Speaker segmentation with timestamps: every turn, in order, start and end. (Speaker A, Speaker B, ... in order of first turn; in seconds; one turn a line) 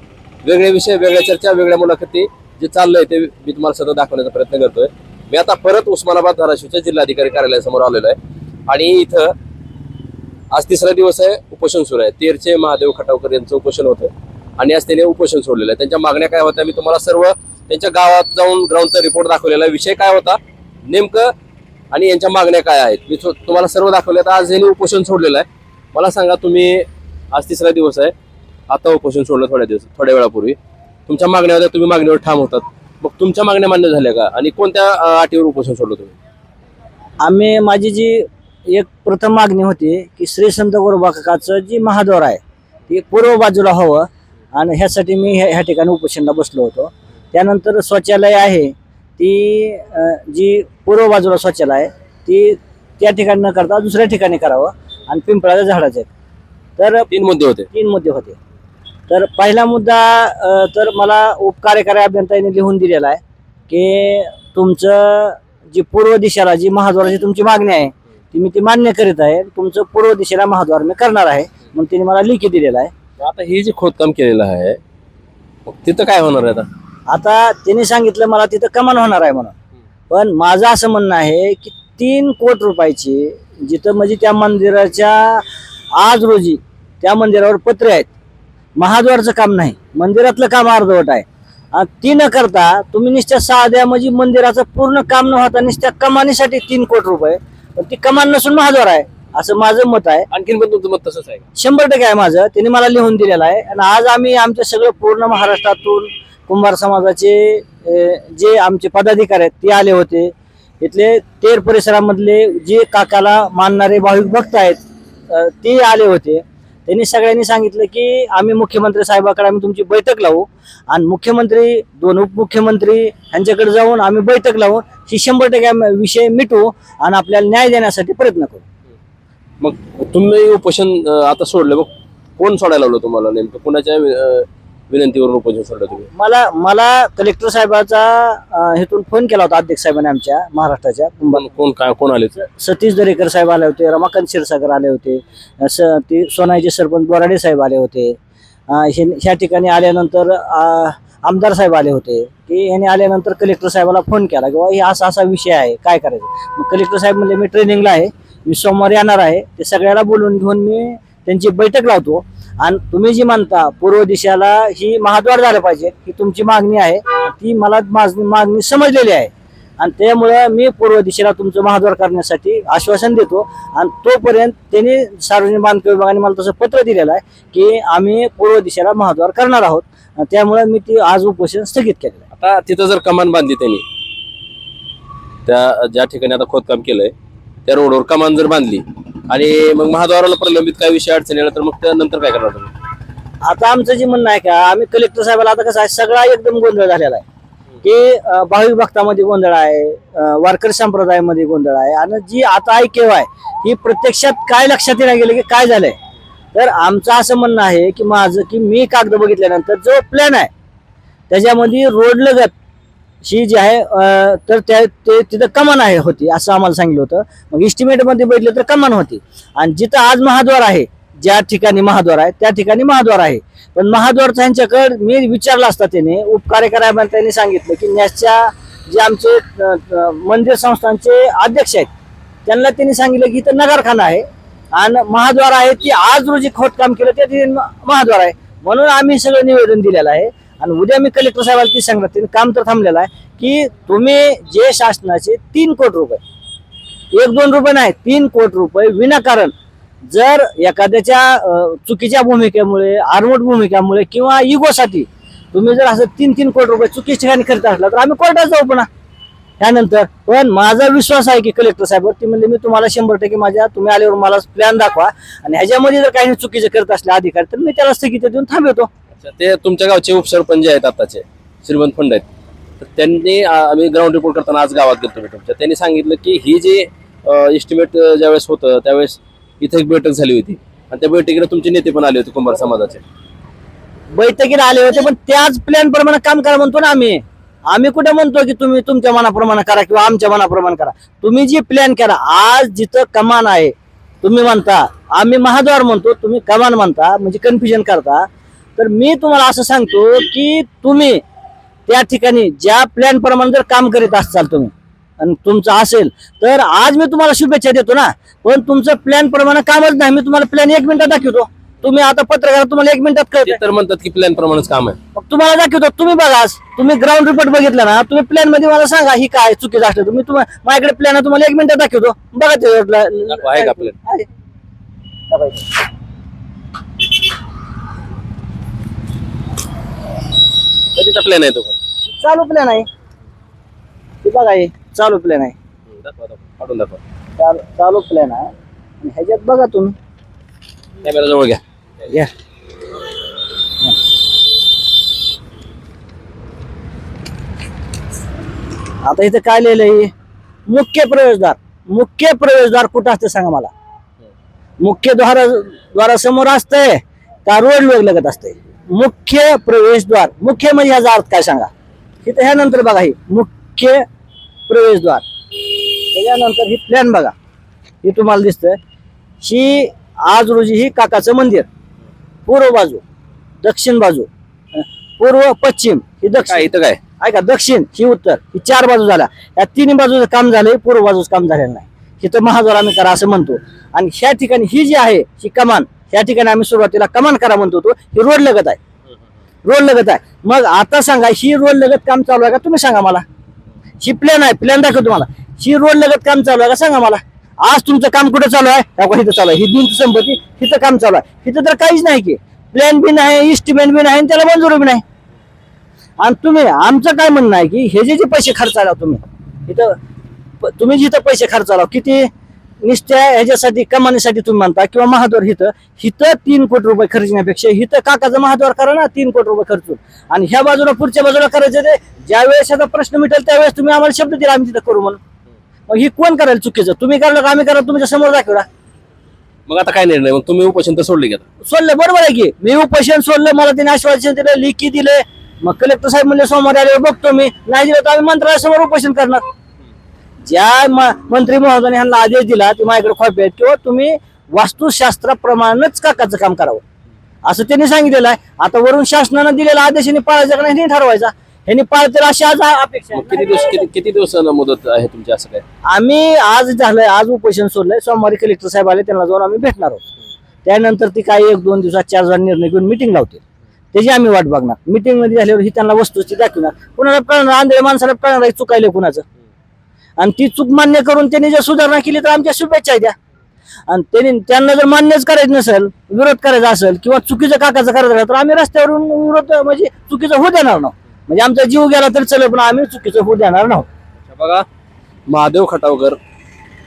Speaker A: 0.4-8.2
Speaker A: 8.7-9.3
Speaker A: 10.5-21.3
Speaker A: 21.9-28.1
Speaker A: 28.7-36.2
Speaker B: 37.2-56.1
Speaker B: 56.8-57.1
Speaker A: 57.1-57.7
Speaker B: 57.7-58.4
Speaker B: 59.1-72.9
Speaker A: 73.2-74.8
Speaker A: 75.7-76.7
Speaker B: 77.1-79.5
Speaker B: 80.1-88.1
Speaker B: 88.8-100.3
Speaker A: 100.3-101.5
Speaker B: 101.5-114.8
Speaker B: 115.3-128.6
Speaker A: 129.6-136.1
Speaker B: 136.1-141.4
Speaker A: 141.3-142.4
Speaker B: 142.4-148.2
Speaker B: 148.7-182.2
Speaker A: 182.3-183.8
Speaker A: 185.4-187.1
Speaker A: 187.7-192.7
Speaker B: 193.4-197.2
Speaker B: 197.8-205.9
Speaker B: 206.5-210.5
Speaker B: 211.3-212.5
Speaker B: 213.2-231.9
Speaker B: 232.4-246.2
Speaker B: 247.1-249.5
Speaker B: 250.1-258.9
Speaker B: 259.6-268.9
Speaker A: 269.2-272.2
Speaker A: 272.8-283.0
Speaker B: 284.1-301.2
Speaker B: 301.9-313.6
Speaker A: 313.4-315.0
Speaker B: 315.1-324.2
Speaker A: 323.3-324.0
Speaker B: 325.3-325.7
Speaker A: 330.9-331.8
Speaker B: 332.0-332.9
Speaker B: 334.2-335.5
Speaker A: 335.9-337.0
Speaker B: 337.4-339.9
Speaker A: 341.0-341.6
Speaker B: 349.0-350.1
Speaker B: 350.7-353.7
Speaker B: 354.8-361.7
Speaker B: 362.2-364.0
Speaker B: 364.7-367.3
Speaker B: 368.0-368.8
Speaker B: 369.4-371.7
Speaker B: 372.5-373.0
Speaker B: 373.6-376.7
Speaker A: 376.5-377.0
Speaker B: 377.2-388.8
Speaker B: 389.6-393.2
Speaker B: 394.0-405.0
Speaker B: 406.2-409.9
Speaker B: 410.6-412.3
Speaker B: 412.8-425.2
Speaker B: 425.9-428.6
Speaker A: 429.7-431.4
Speaker B: 431.6-439.4
Speaker B: 440.4-446.8
Speaker B: 447.4-453.9
Speaker A: 453.1-455.6
Speaker B: 455.9-460.1
Speaker B: 460.6-463.4
Speaker B: 463.9-469.2
Speaker B: 470.2-473.1
Speaker B: 473.9-483.9
Speaker A: 484.3-484.6
Speaker A: 485.3-486.2